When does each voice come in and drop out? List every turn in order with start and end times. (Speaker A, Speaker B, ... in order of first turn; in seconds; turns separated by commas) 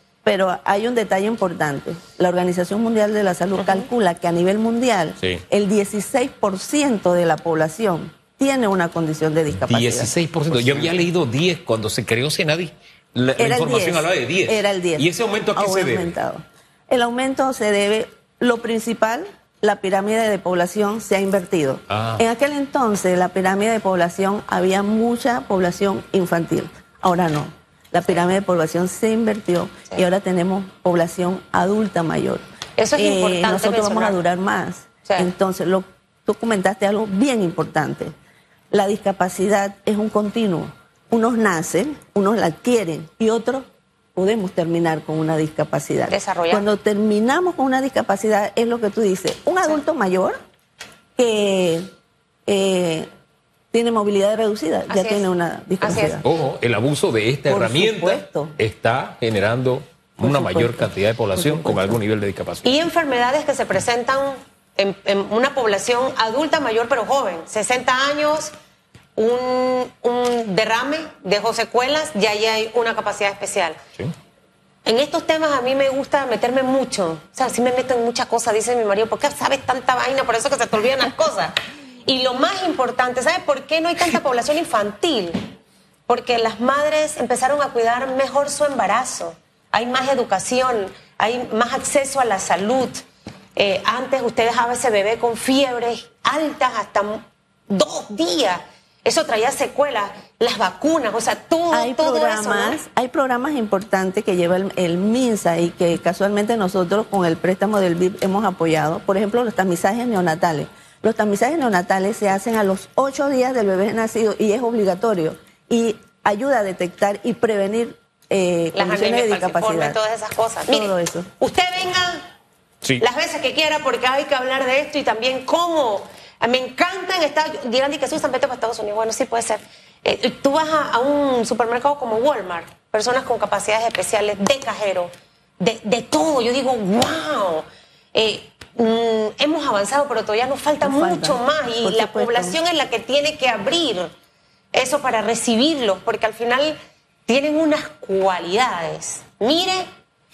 Speaker A: 0.2-10.1, Speaker B: 3.6-3.9, Speaker C: 9.5-16.1, Speaker A: 13.4-32.4, Speaker C: 21.9-22.2, Speaker B: 32.8-34.2, Speaker A: 33.0-38.1, Speaker A: 38.7-50.4, Speaker B: 46.1-46.7, Speaker A: 51.2-51.9, Speaker A: 52.5-53.1, Speaker A: 53.7-56.2, Speaker B: 54.9-55.3, Speaker B: 55.8-56.2, Speaker C: 56.0-62.8, Speaker A: 57.5-58.6, Speaker A: 60.2-62.0, Speaker B: 62.6-68.5, Speaker B: 69.2-73.8, Speaker B: 74.8-85.5, Speaker B: 86.1-93.0, Speaker B: 93.6-102.8, Speaker A: 101.7-120.0, Speaker B: 118.7-122.2, Speaker A: 120.7-121.3, Speaker B: 123.0-144.1, Speaker A: 140.8-142.6, Speaker B: 144.7-146.8, Speaker B: 147.3-149.9